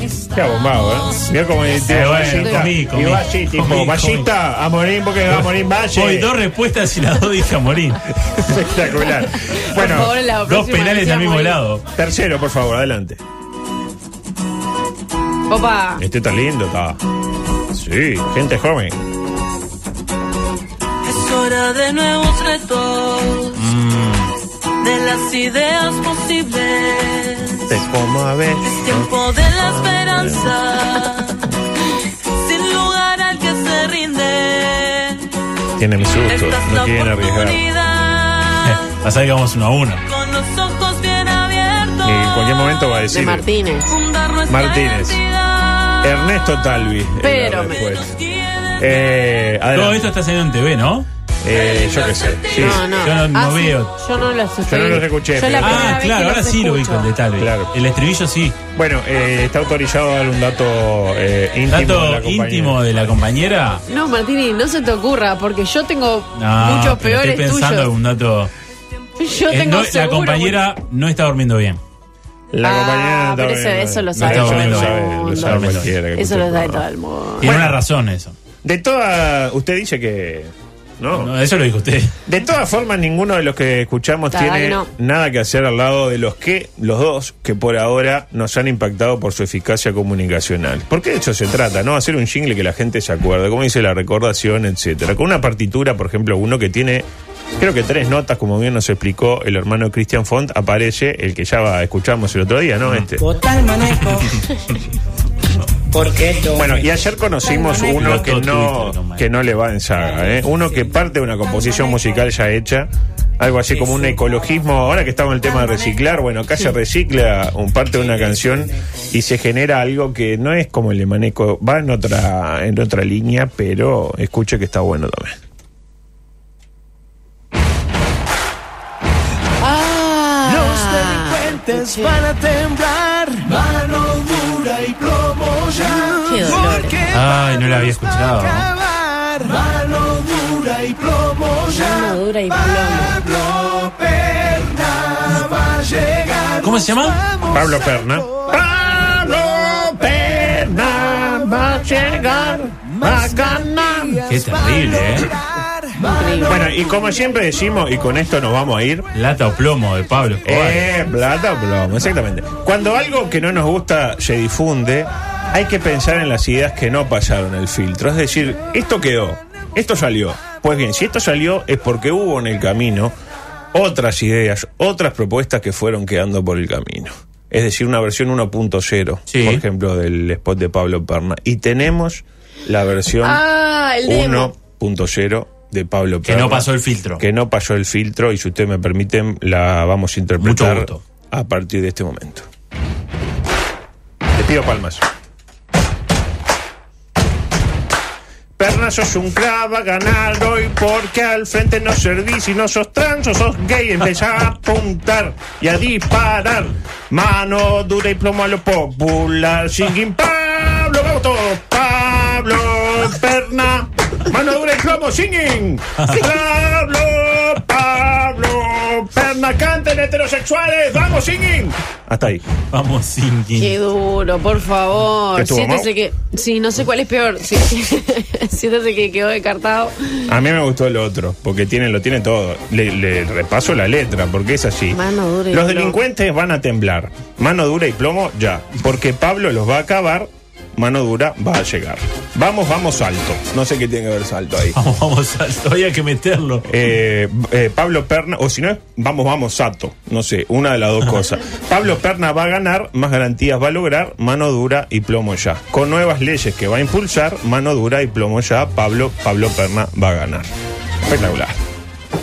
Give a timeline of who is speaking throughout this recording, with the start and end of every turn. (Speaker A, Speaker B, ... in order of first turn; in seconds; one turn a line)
Speaker A: 0.3-6.3
Speaker B: 1.8-4.3
Speaker C: 2.1-2.6
Speaker B: 5.9-8.5
Speaker A: 8.2-10.1
Speaker C: 9.5-11.6
Speaker B: 9.7-11.8
Speaker A: 11.9-13.2
Speaker C: 15.5-16.0
Speaker A: 16.0-17.0
Speaker A: 17.7-19.0
Speaker D: 21.0-23.7
Speaker B: 23.6-24.3
Speaker D: 24.8-27.8
Speaker A: 27.7-30.5
Speaker D: 28.6-31.4
Speaker D: 32.3-35.3
Speaker A: 35.8-37.6
Speaker D: 36.3-38.9
Speaker B: 38.6-40.0
Speaker D: 40.0-43.0
Speaker A: 42.0-43.5
Speaker C: 43.1-43.9
Speaker D: 43.9-46.2
Speaker A: 44.5-45.2
Speaker A: 46.0-48.1
Speaker C: 47.2-47.8
Speaker D: 47.6-49.3
Speaker A: 48.8-50.1
Speaker B: 49.7-51.1
Speaker A: 51.4-52.9
Speaker D: 51.6-52.9
Speaker C: 52.5-57.1
Speaker B: 52.7-54.0
Speaker A: 54.7-56.0
Speaker B: 55.6-58.6
Speaker A: 57.4-57.7
Speaker A: 58.7-63.0
Speaker B: 61.7-63.8
Speaker C: 63.9-67.9
Speaker B: 66.3-68.5
Speaker C: 69.2-70.7
Speaker B: 69.5-71.8
Speaker A: 72.5-76.8
Speaker C: 72.6-77.5
Speaker B: 74.2-75.9
Speaker B: 77.4-78.3
Speaker A: 77.4-77.8
Speaker A: 78.6-81.3
Speaker B: 81.1-82.1
Speaker A: 82.2-97.0
Speaker C: 84.3-84.9
Speaker A: 97.6-103.3
Speaker E: 103.2-104.4
Speaker B: 104.0-104.4
Speaker E: 105.9-106.9
Speaker A: 106.5-125.4
Speaker B: 107.6-109.2
Speaker C: 129.6-132.2
Speaker F: 130.4-148.6
Speaker C: 135.9-137.0
Speaker B: 137.1-138.7
Speaker C: 141.7-143.2
Speaker B: 146.6-147.2
Speaker A: 147.5-154.2
Speaker F: 152.9-156.6
Speaker B: 154.3-155.3
Speaker C: 156.0-156.6
Speaker A: 156.4-159.1
Speaker B: 159.1-160.9
Speaker A: 160.4-173.1
Speaker A: 173.7-183.4
Speaker B: 179.3-179.6
Speaker C: 183.2-184.5
Speaker A: 184.0-192.5
Speaker B: 186.2-187.2
Speaker B: 190.4-191.0
Speaker A: 194.3-195.0
Speaker A: 198.6-222.4
Speaker B: 216.0-216.2
Speaker B: 222.6-223.8
Speaker C: 223.6-230.3
Speaker A: 225.3-225.9
Speaker A: 230.3-244.8
Speaker C: 234.9-236.0
Speaker B: 244.7-246.8
Speaker A: 246.7-260.5
Speaker A: 261.1-261.6